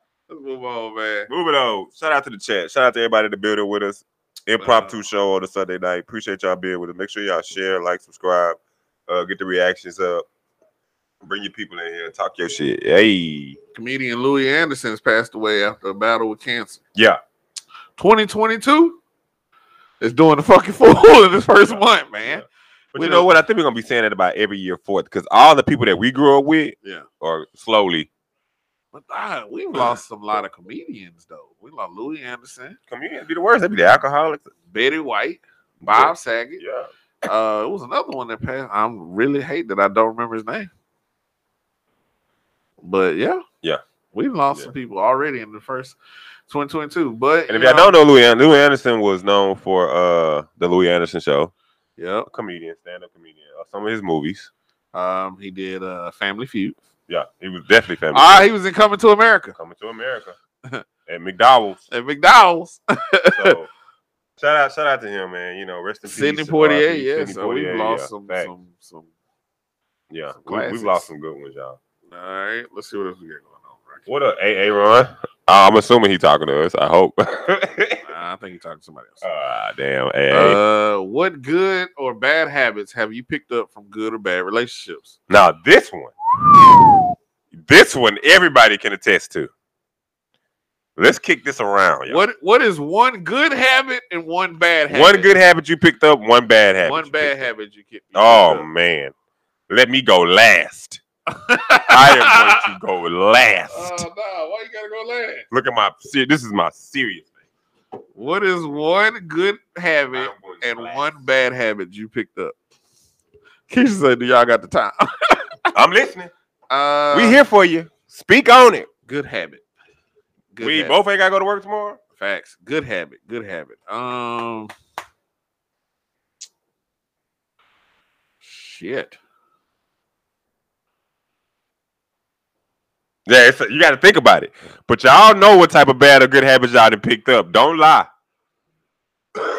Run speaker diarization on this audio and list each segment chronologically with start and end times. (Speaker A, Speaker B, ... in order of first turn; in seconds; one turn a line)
Speaker A: 0.3-1.3
Speaker B: 1.3-10.3
Speaker A: 4.6-5.0
Speaker B: 11.2-13.6
Speaker A: 13.7-16.8
Speaker A: 18.0-19.0
Speaker A: 20.0-23.3
Speaker B: 21.6-28.1
Speaker A: 28.9-32.8
Speaker B: 32.9-34.5
Speaker A: 34.7-36.6
Speaker B: 35.8-36.9
Speaker A: 37.2-40.7
Speaker A: 42.8-43.4
Speaker A: 44.1-46.0
Speaker A: 46.5-48.0
Speaker B: 47.5-51.5
Speaker A: 52.0-52.3
Speaker B: 52.3-54.5
Speaker A: 54.9-56.8
Speaker B: 57.1-58.5
Speaker A: 58.1-59.6
Speaker B: 59.6-60.4
Speaker B: 61.1-61.8
Speaker A: 61.9-63.6
Speaker B: 63.3-63.7
Speaker B: 64.4-68.5
Speaker A: 66.0-69.1
Speaker B: 70.1-71.8
Speaker A: 70.3-71.1
Speaker A: 72.1-74.1
Speaker B: 74.1-78.1
Speaker A: 78.1-79.2
Speaker B: 79.2-80.6
Speaker A: 80.3-85.2
Speaker B: 85.3-86.1
Speaker B: 87.5-89.5
Speaker B: 91.0-92.2
Speaker A: 92.1-95.3
Speaker B: 94.9-97.5
Speaker A: 96.8-98.7
Speaker B: 98.1-99.1
Speaker B: 99.7-101.0
Speaker A: 101.3-102.7
Speaker B: 101.9-104.0
Speaker A: 103.7-105.5
Speaker B: 105.5-107.3
Speaker A: 108.2-112.5
Speaker B: 110.1-111.1
Speaker A: 113.7-115.7
Speaker B: 115.7-116.3
Speaker A: 116.7-117.4
Speaker B: 117.1-118.9
Speaker A: 119.1-119.6
Speaker A: 120.5-121.0
Speaker B: 120.6-122.0
Speaker A: 122.2-124.7
Speaker A: 128.4-129.2
Speaker B: 133.3-138.1